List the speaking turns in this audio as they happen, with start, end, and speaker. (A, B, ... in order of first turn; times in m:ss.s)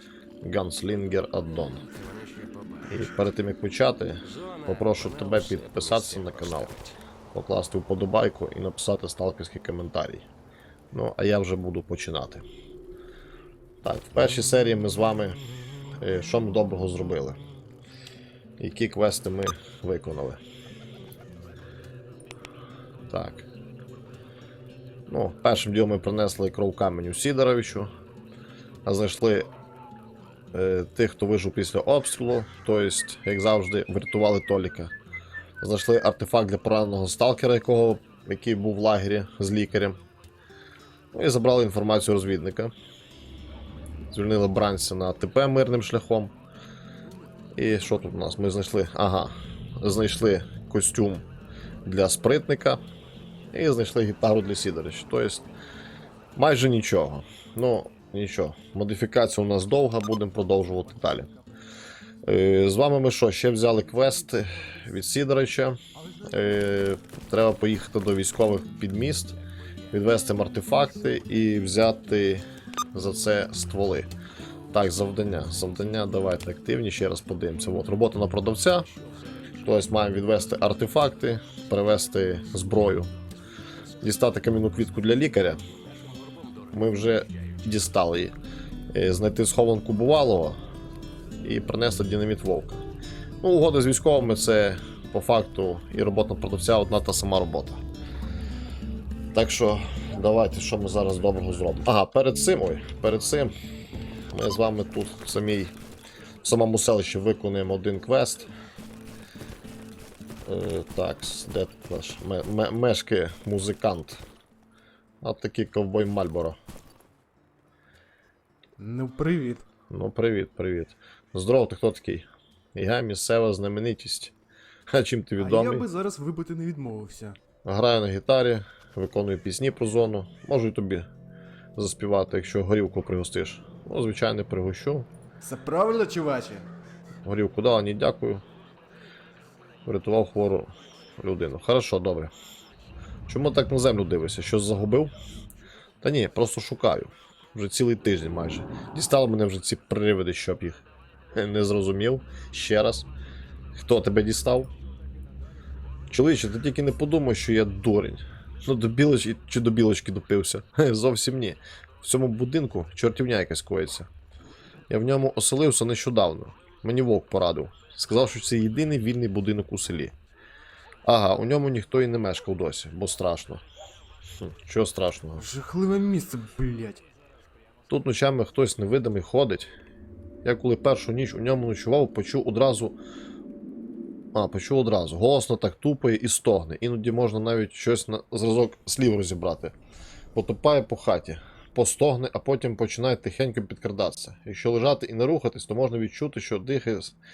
0:00.4-0:01.9 A
0:02.9-0:06.8 A
0:07.3-0:10.3 A
0:10.9-0:12.4 A
0:13.8-0:15.4 A
0:16.0-0:17.4 A
0:18.6-0:20.4 A
0:23.1-0:23.5 A
0:25.1-0:27.9 A
0:28.9-0:29.5 A
0:30.5-0:34.9 A
0:35.6-0:40.0 A
0:41.1-0:42.7 A
0:44.1-0:46.3 A
0:47.6-0:51.3 A
0:51.8-0:52.8 A
0:53.5-0:55.5 A
0:56.4-1:01.3 A
1:00.9-1:01.5 B
1:02.2-1:09.4 A
1:06.0-1:06.4 B
1:09.9-1:14.1 A
1:14.7-1:18.9 A
1:19.6-1:23.1 A
1:24.0-1:25.6 A
1:26.7-1:28.4 A
1:28.9-1:30.6 A
1:31.4-1:32.8 A
1:33.4-1:37.8 A
1:39.3-1:43.5 A
1:44.3-1:45.7 A
1:46.4-1:48.5 A
1:50.4-1:54.2 A
1:55.2-1:56.6 A
1:58.8-1:59.7 B
1:59.9-2:04.3 A
2:04.9-2:05.9 A
2:05.4-2:07.4 B
2:07.6-2:11.1 A
2:11.8-2:15.1 A
2:15.4-2:16.7 B
2:17.2-2:18.4 A
2:19.9-2:22.3 A
2:23.3-2:25.1 A
2:26.0-2:33.1 A
2:33.8-2:34.7 A
2:36.1-2:44.1 A
2:44.9-2:50.1 A
2:51.0-2:53.6 A
2:54.4-2:55.6 A
2:55.4-2:57.1 B
2:57.9-2:59.7 A
3:00.4-3:03.0 A
3:04.3-3:09.8 A
3:10.4-3:17.2 A